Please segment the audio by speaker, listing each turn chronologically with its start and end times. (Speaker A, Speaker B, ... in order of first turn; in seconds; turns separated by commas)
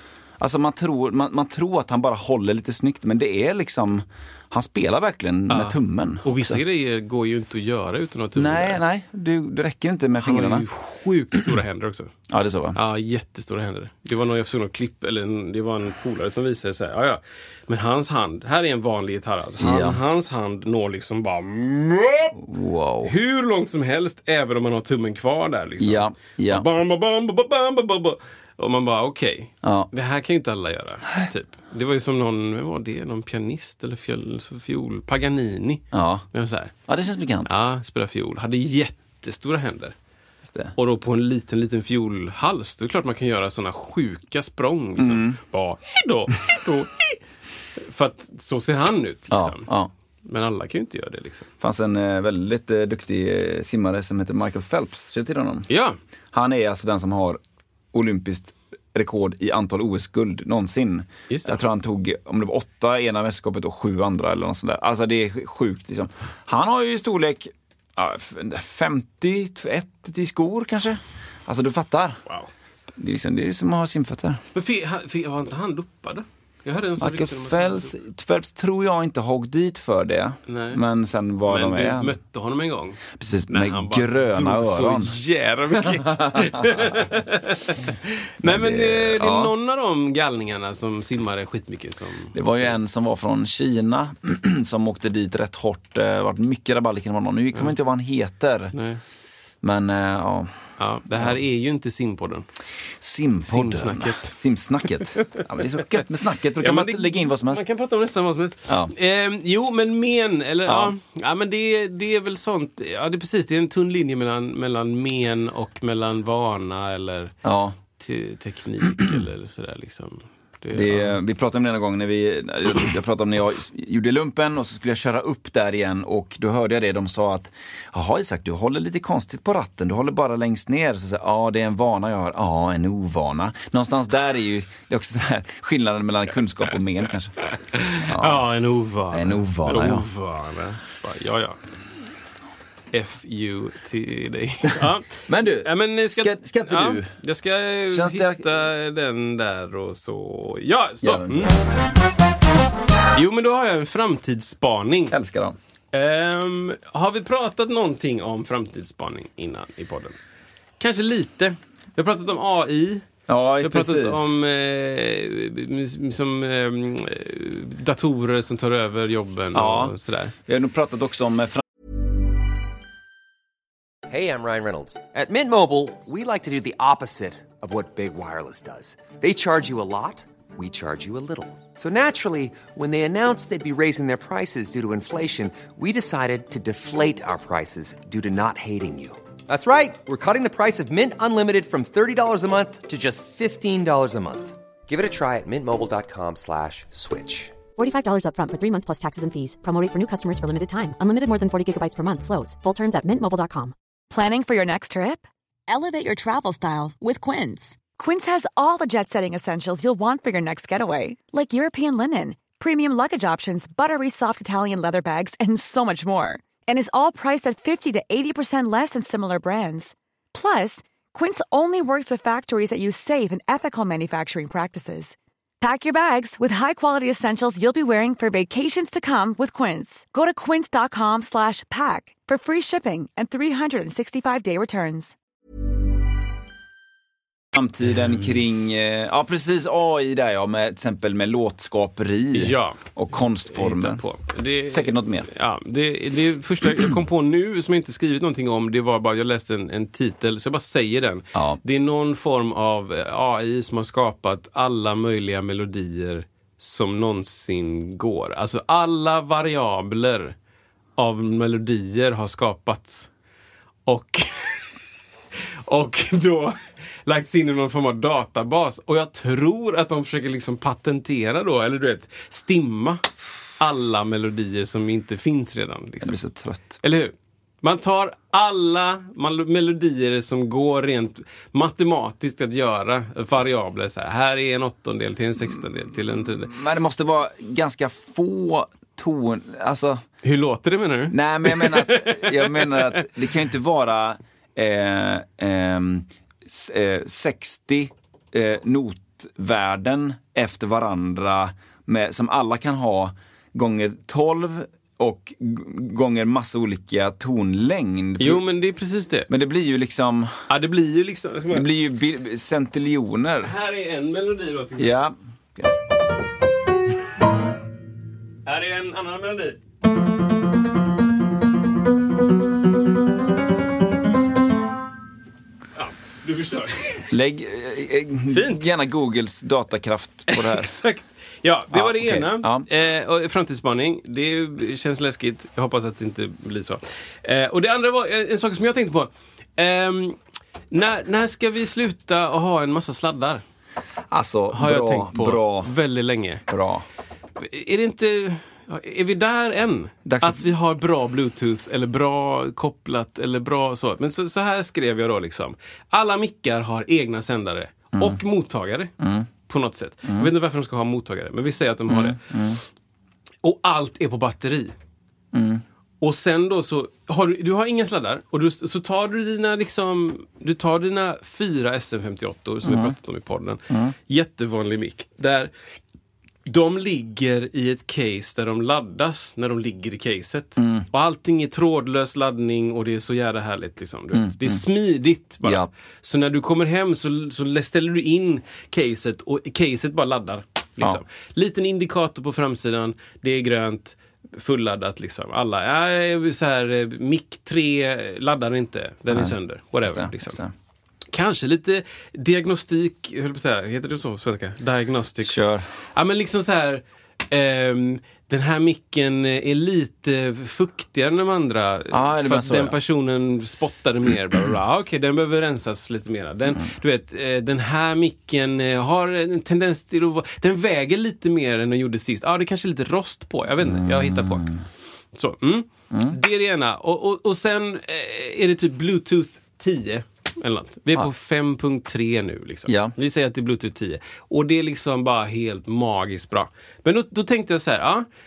Speaker A: 0.4-6.6, Speaker B: 5.5-8.8, Speaker A: 8.3-10.7, Speaker B: 10.2-12.1, Speaker A: 12.3-12.8, Speaker B: 12.7-22.4, Speaker A: 19.6-20.0, Speaker A: 22.4-23.1, Speaker B: 23.0-36.7, Speaker A: 25.8-26.7, Speaker A: 29.6-29.9, Speaker A: 35.9-36.2, Speaker A: 36.9-37.5, Speaker B: 37.4-39.9, Speaker A: 40.4-40.7, Speaker B: 40.8-47.2, Speaker A: 45.0-45.4, Speaker B: 47.8-49.7, Speaker A: 49.3-49.9, Speaker B: 50.2-51.5, Speaker A: 51.6-55.7, Speaker B: 55.7-56.0, Speaker A: 56.3-57.4, Speaker A: 57.9-72.2, Speaker B: 61.3-61.6, Speaker A: 73.0-74.4, Speaker B: 74.5-78.0, Speaker A: 77.0-82.2, Speaker B: 80.5-80.8, Speaker B: 81.5-92.7, Speaker A: 83.2-85.1, Speaker A: 85.8-87.0, Speaker A: 88.4-89.5, Speaker A: 92.3-98.7, Speaker B: 98.7-99.0, Speaker A: 99.6-100.5, Speaker B: 100.8-102.5, Speaker A: 103.0-107.6, Speaker B: 103.5-104.3, Speaker B: 104.9-106.0, Speaker B: 106.6-117.3, Speaker A: 110.7-110.9, Speaker A: 117.4-117.8, Speaker B: 118.0-121.2, Speaker A: 120.7-137.3, Speaker B: 137.6-141.6, Speaker A: 138.0-138.4, Speaker A: 139.1-140.1, Speaker B: 142.9-151.6, Speaker A: 145.2-147.1, Speaker A: 147.9-148.5, Speaker A: 151.0-151.6, Speaker B: 153.1-155.1, Speaker A: 155.1-155.6, Speaker B: 155.9-160.2, Speaker B: 160.8-163.1, Speaker A: 163.3-164.3, Speaker B: 163.6-170.3, Speaker A: 169.5-171.6, Speaker C: 174.1-197.5, Speaker D: 197.8-203.7, Speaker E: 204.1-235.1, Speaker A: 237.5-244.0, Speaker B: 242.3-242.8, Speaker B: 243.5-260.4, Speaker A: 244.7-245.3, Speaker A: 251.3-251.6, Speaker B: 261.0-263.1, Speaker B: 263.9-264.6, Speaker B: 265.7-276.2, Speaker A: 276.0-276.8, Speaker B: 276.8-286.5, Speaker A: 286.2-290.0, Speaker B: 290.2-293.1, Speaker A: 291.1-308.4, Speaker B: 308.2-309.3, Speaker A: 309.3-310.3, Speaker B: 310.5-311.7, Speaker A: 311.5-313.5, Speaker B: 313.4-315.0, Speaker A: 314.8-315.7, Speaker B: 318.4-319.6, Speaker B: 325.8-327.1, Speaker A: 327.1-330.7, Speaker B: 328.3-328.7, Speaker B: 330.3-340.2, Speaker A: 331.7-332.6, Speaker B: 340.7-343.4, Speaker A: 344.1-345.7, Speaker B: 344.5-346.4, Speaker A: 346.5-346.8, Speaker B: 347.4-358.9, Speaker A: 350.0-350.4, Speaker A: 357.9-358.2, Speaker A: 359.0-359.3, Speaker B: 359.5-362.2, Speaker A: 360.0-360.3, Speaker A: 361.9-362.6, Speaker B: 363.4-364.7, Speaker A: 365.3-365.6, Speaker B: 366.0-375.5, Speaker A: 372.6-372.9, Speaker A: 373.7-373.9, Speaker B: 376.4-400.4, Speaker A: 380.6-380.9, Speaker A: 384.1-384.6, Speaker A: 385.4-385.7, Speaker A: 399.1-400.5, Speaker B: 401.1-424.6, Speaker A: 405.2-405.6, Speaker A: 411.9-412.8, Speaker A: 423.6-424.6, Speaker B: 425.1-438.1, Speaker A: 425.9-426.1, Speaker A: 432.7-432.9